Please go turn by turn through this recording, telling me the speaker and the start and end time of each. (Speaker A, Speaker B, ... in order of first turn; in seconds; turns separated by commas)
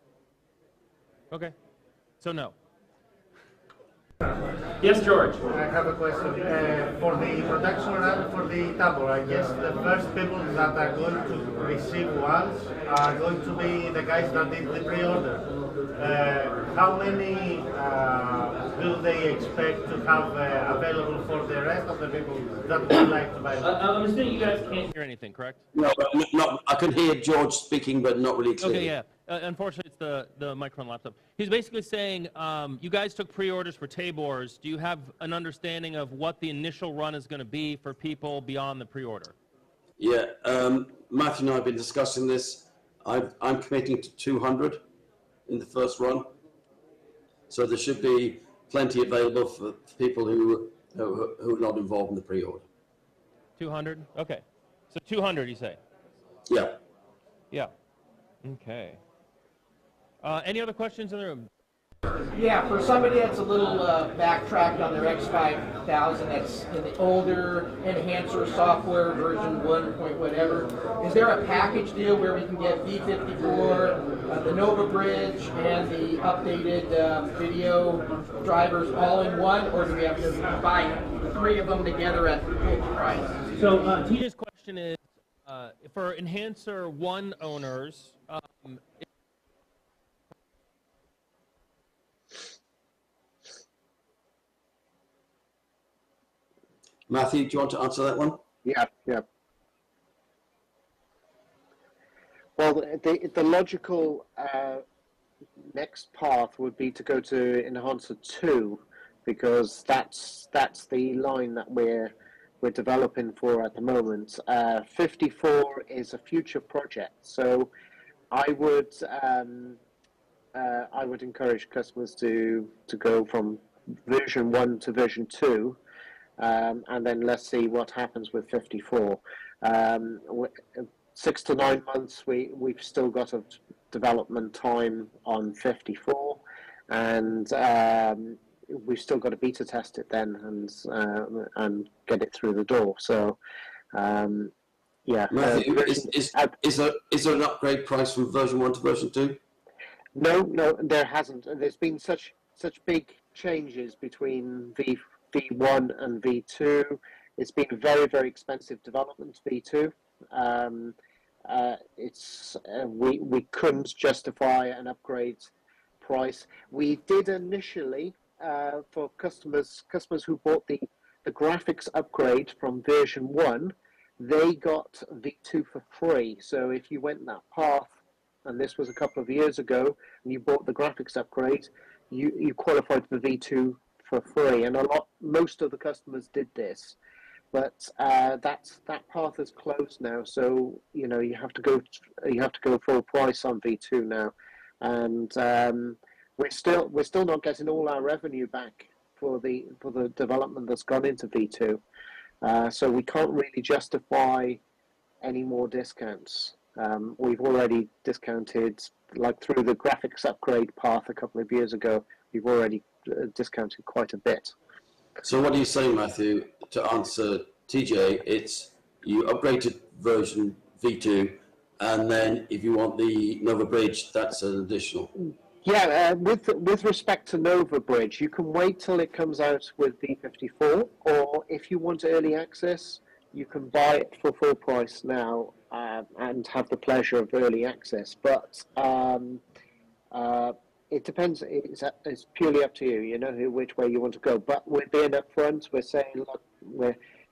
Speaker A: 2.2-2.5, Speaker A: 4.8-5.4, Speaker B: 5.5-15.4, Speaker B: 16.0-23.7, Speaker A: 23.6-25.6, Speaker C: 25.7-28.9, Speaker A: 28.6-39.3, Speaker C: 40.0-44.8, Speaker C: 45.5-46.3, Speaker C: 47.5-52.6, Speaker A: 53.6-55.8, Speaker C: 56.5-56.8, Speaker A: 58.4-59.0, Speaker A: 60.2-61.5, Speaker D: 62.3-83.5, Speaker A: 83.5-89.0, Speaker C: 97.1-98.4, Speaker E: 98.6-99.2, Speaker E: 102.6-104.8, Speaker E: 105.6-117.7, Speaker E: 118.3-119.8, Speaker E: 120.5-125.8, Speaker E: 126.4-143.4, Speaker E: 143.9-144.5, Speaker E: 145.1-146.5, Speaker C: 145.3-149.4, Speaker E: 150.1-187.0, Speaker E: 187.5-201.8, Speaker E: 202.4-204.6, Speaker E: 205.2-214.5, Speaker C: 215.2-225.1, Speaker E: 225.6-239.4, Speaker E: 240.1-247.0